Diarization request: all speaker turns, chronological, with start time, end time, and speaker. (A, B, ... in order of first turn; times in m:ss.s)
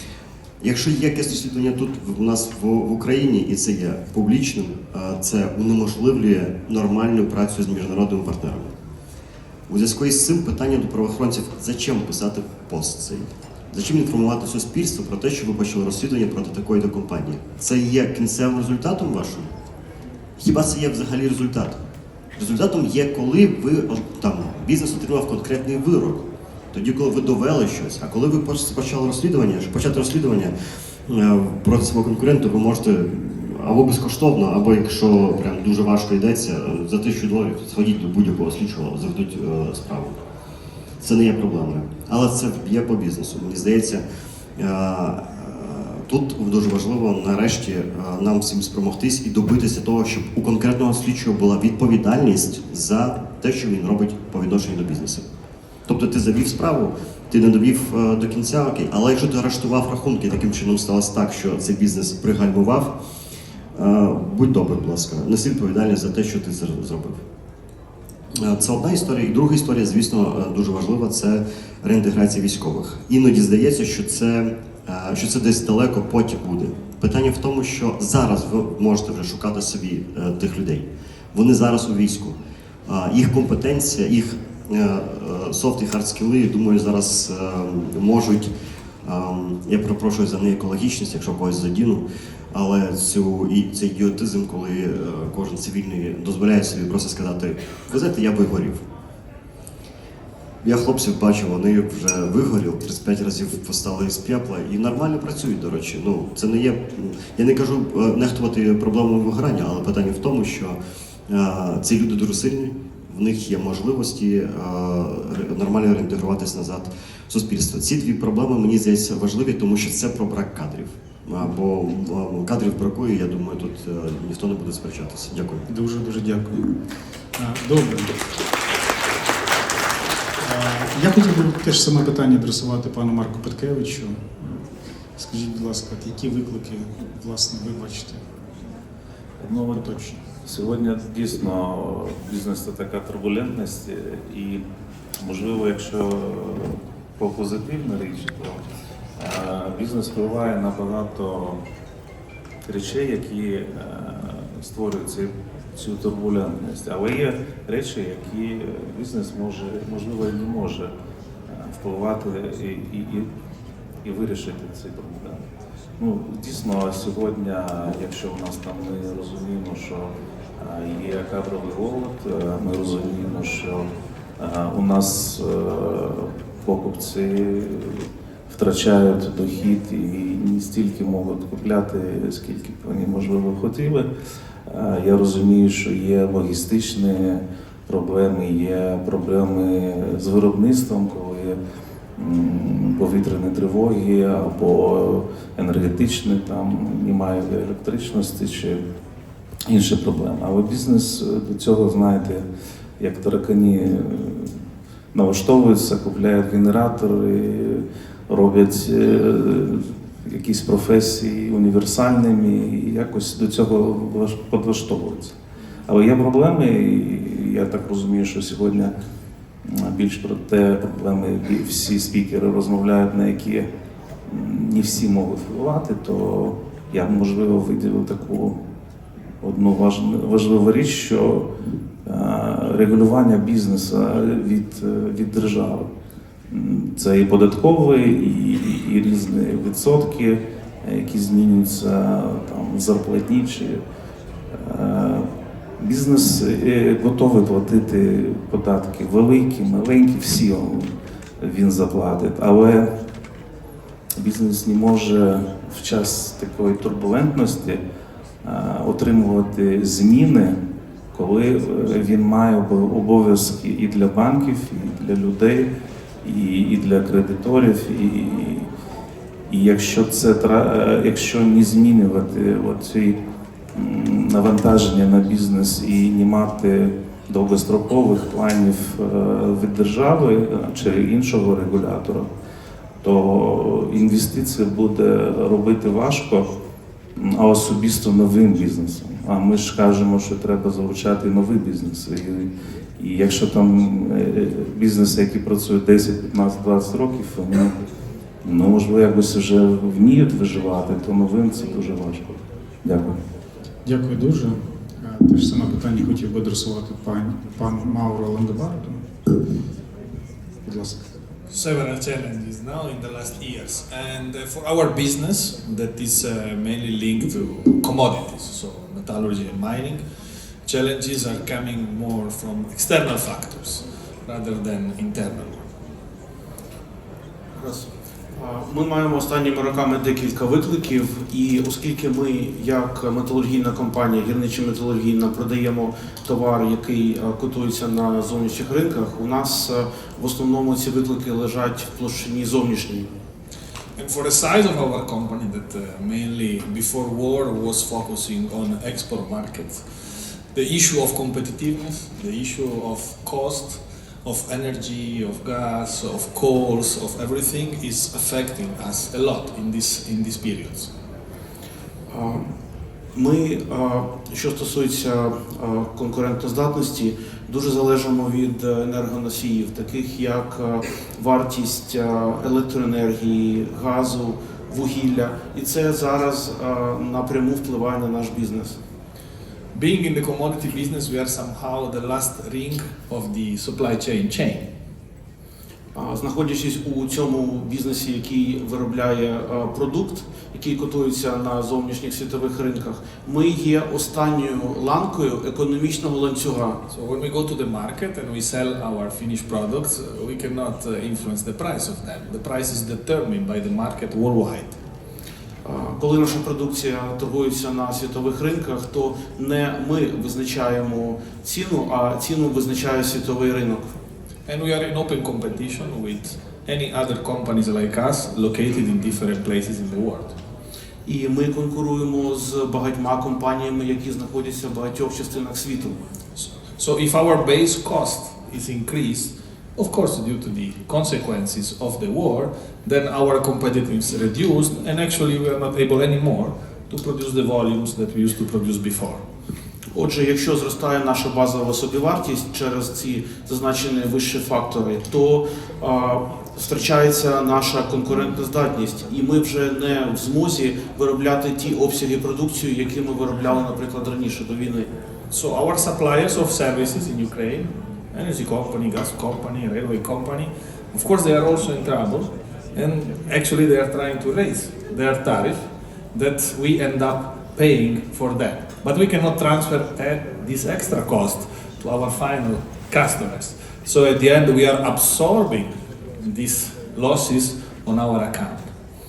0:00.6-0:08.7 A
0:09.7-0:19.5 A
0:20.4-0:21.8 A
0:22.3-0:30.5 A
0:31.1-0:40.2 A
0:41.0-0:44.0 A
0:44.6-0:55.2 A
0:55.9-1:02.9 A
1:03.7-1:07.2 A
1:08.4-1:22.3 A
1:22.8-1:28.5 A
1:29.0-1:38.8 A
1:40.6-2:05.6 A
2:05.7-2:06.7 B
2:07.4-2:08.1 B
2:10.4-2:14.6 B
2:15.2-2:18.2 B
2:19.4-2:19.9 C
2:19.7-2:20.2 B
2:20.4-2:24.6 C
2:25.2-2:28.6 C
2:29.2-2:31.6 C
2:32.6-2:40.9 C
2:41.5-2:43.3 C
2:44.0-2:45.4 C
2:46.0-2:53.9 C
2:54.4-3:04.1 C
3:04.7-3:11.6 C
3:12.2-3:18.8 C
3:19.7-3:22.4 C
3:23.0-3:24.5 C
3:25.1-3:35.3 C
3:35.9-3:38.9 C
3:39.6-3:43.7 C
3:44.3-3:48.6 C
3:49.4-3:51.4 C
3:52.0-3:55.9 C
3:56.5-4:03.8 C
4:04.5-4:12.9 C
4:14.2-4:17.8 C
4:18.4-4:20.6 C
4:21.1-4:25.7 C
4:26.2-4:28.7 C
4:29.5-4:33.2 C
4:33.7-4:42.3 C
4:43.0-4:46.5 C
4:47.2-4:57.8 C
4:58.4-5:03.2 C
5:03.8-5:09.0 B
5:10.6-5:11.0 B
5:11.5-5:20.0 D
5:20.7-5:25.6 D
5:27.5-5:43.1 E
5:44.0-5:49.8 D
5:50.5-6:00.9 D
6:02.1-6:02.5 E
6:03.1-6:18.8 E
6:19.7-6:24.6 D
6:25.9-6:36.8 E
6:36.9-6:44.7 D
6:45.6-6:53.9 E
6:54.4-7:00.3 D
7:01.0-7:06.0 E
7:06.4-7:19.2 D
7:19.9-7:34.9 E
7:35.3-7:45.6 D
7:46.1-7:55.7 D
7:56.2-7:58.7 D